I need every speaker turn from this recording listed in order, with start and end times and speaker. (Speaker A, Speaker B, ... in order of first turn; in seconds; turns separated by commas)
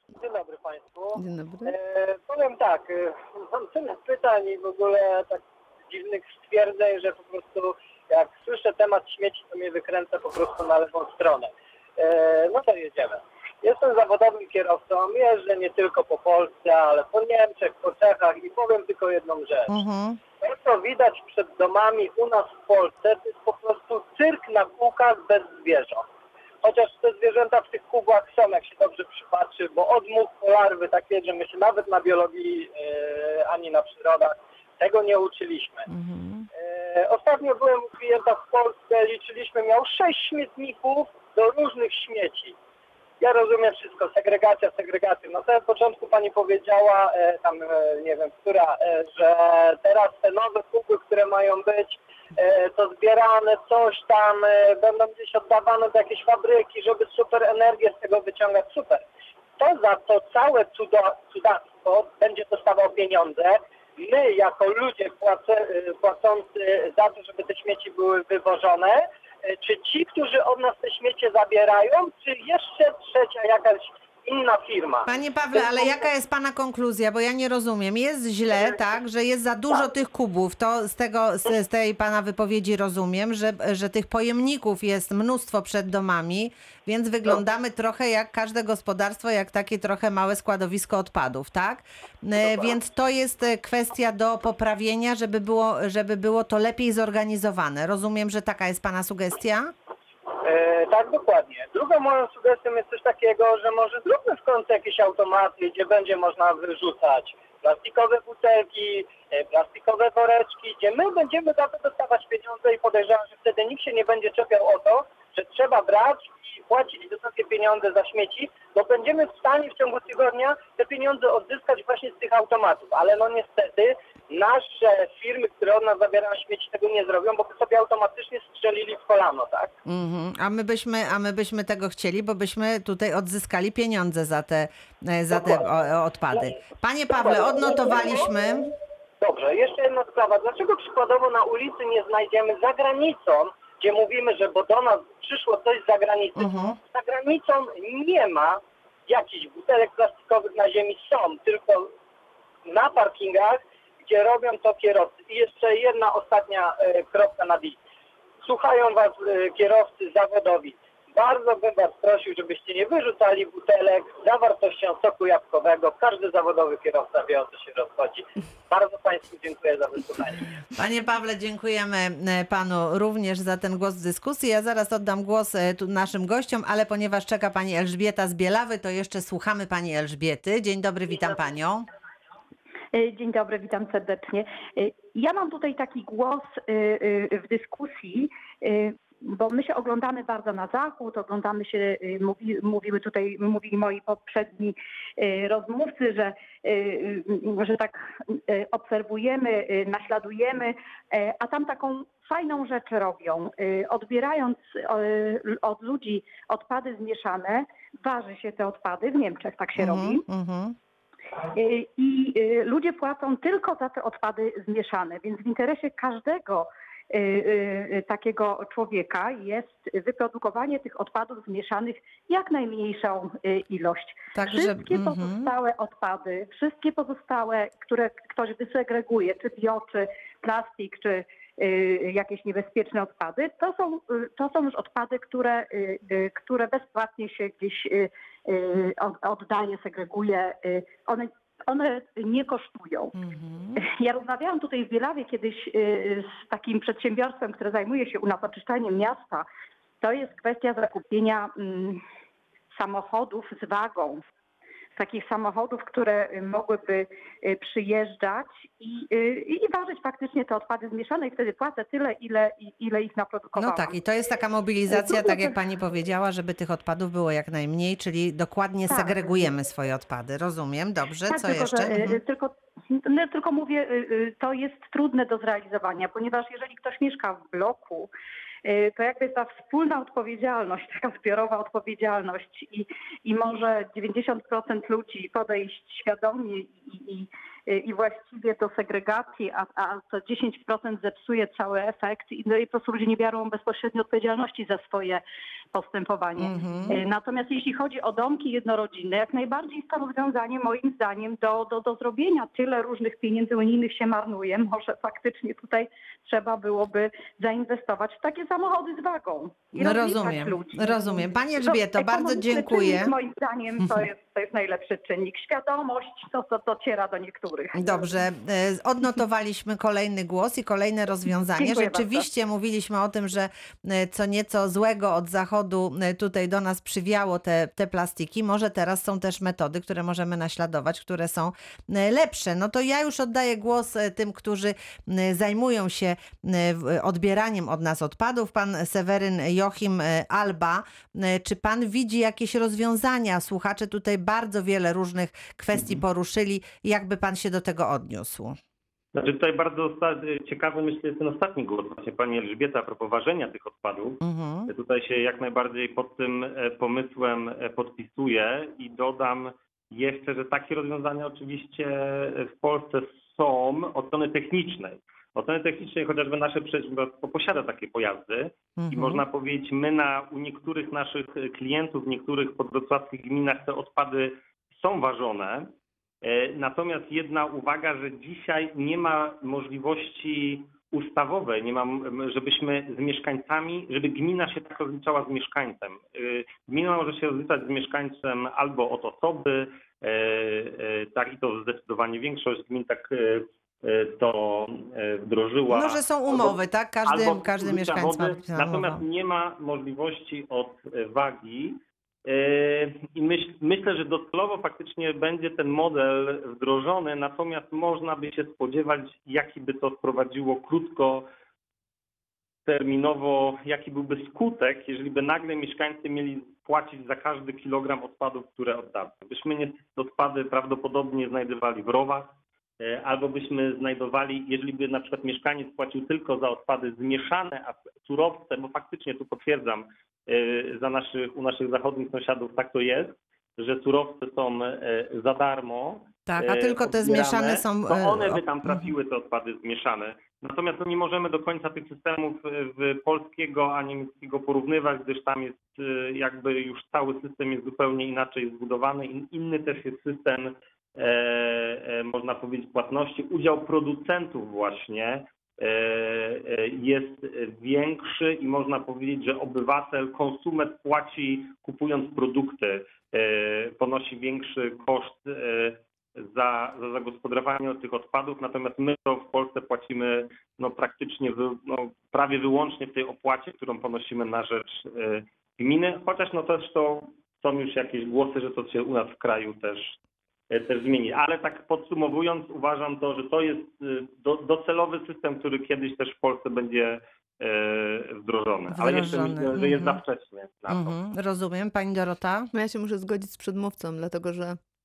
Speaker A: 0.1-19.7, Speaker B: 1.1-1.7, Speaker C: 19.7-20.2, Speaker A: 20.4-26.1, Speaker A: 26.6-35.9, Speaker C: 35.9-36.5, Speaker A: 36.5-42.5, Speaker A: 43.2-59.0, Speaker A: 59.6-75.9, Speaker C: 75.0-99.7, Speaker A: 100.4-129.7, Speaker C: 129.8-138.7, Speaker A: 135.3-135.6, Speaker A: 136.3-136.6, Speaker A: 137.1-138.3, Speaker A: 139.2-151.9, Speaker C: 146.3-146.8, Speaker A: 152.7-157.8, Speaker A: 158.4-170.5, Speaker C: 170.7-181.8, Speaker D: 182.9-210.2, Speaker C: 209.8-210.8, Speaker D: 211.5-243.1, Speaker C: 224.3-225.5, Speaker C: 243.2-243.8, Speaker D: 243.8-249.4, Speaker D: 250.0-252.0, Speaker D: 252.7-254.2, Speaker D: 254.9-264.0, Speaker C: 263.5-272.2, Speaker D: 264.9-265.5, Speaker D: 268.9-269.2, Speaker D: 271.3-278.1, Speaker D: 278.6-317.9, Speaker C: 296.4-297.0, Speaker C: 309.8-313.1, Speaker C: 317.7-348.6, Speaker D: 321.6-322.2, Speaker E: 349.1-375.7, Speaker C: 354.2-354.7, Speaker C: 368.8-369.2, Speaker E: 376.2-411.2, Speaker C: 395.7-399.0, Speaker E: 412.6-479.9, Speaker C: 436.3-438.9, Speaker E: 480.5-490.9, Speaker C: 488.7-490.0, Speaker C: 490.7-492.5, Speaker B: 492.5-494.6